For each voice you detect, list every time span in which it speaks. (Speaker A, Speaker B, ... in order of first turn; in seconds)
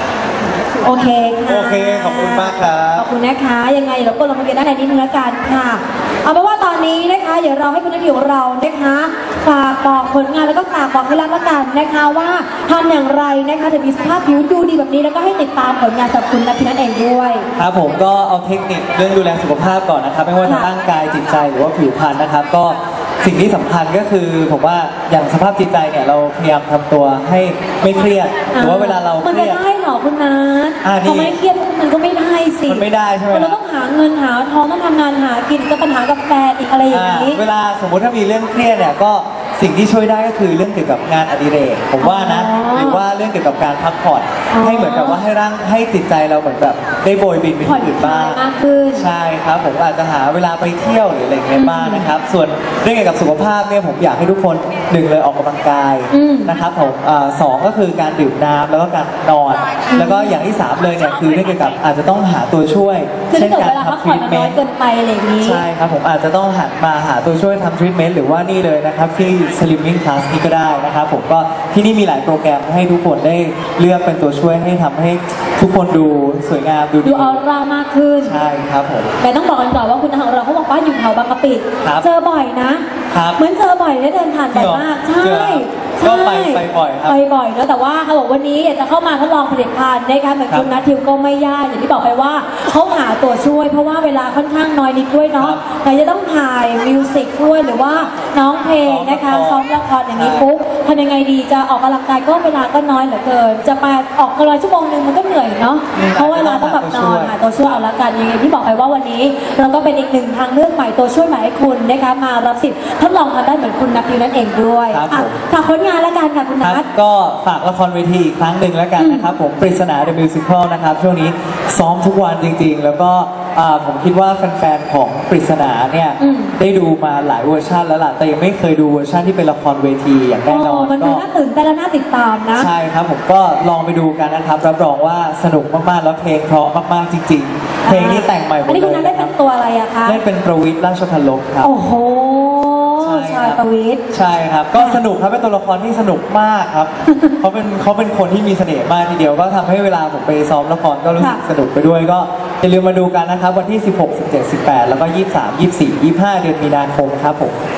Speaker A: 0.8-17.5, 20.4-20.7, 28.5-37.4, 42.0-43.0, 44.5-45.2, 47.6-49.1, 51.5-52.1, 56.1-56.5, 59.9-60.4, 63.3-65.6, 77.0-78.4, 79.2-82.8, 83.4-116.8, 119.0-119.3, 126.2-126.5, 130.5-132.7, 137.8-140.2, 141.6-144.0, 147.1-147.3
Speaker B: 1.4-3.1, 17.6-29.6, 30.8-31.4, 32.6-33.6, 36.9-48.4, 48.9-64.6, 65.4-77.4, 78.2-79.1, 83.1-83.4, 84.5-87.2, 97.9-100.5, 105.9-107.3, 114.9-115.4, 116.6-131.2, 132.6-139.3, 140.0-141.7, 143.0-143.6, 144.1-157.5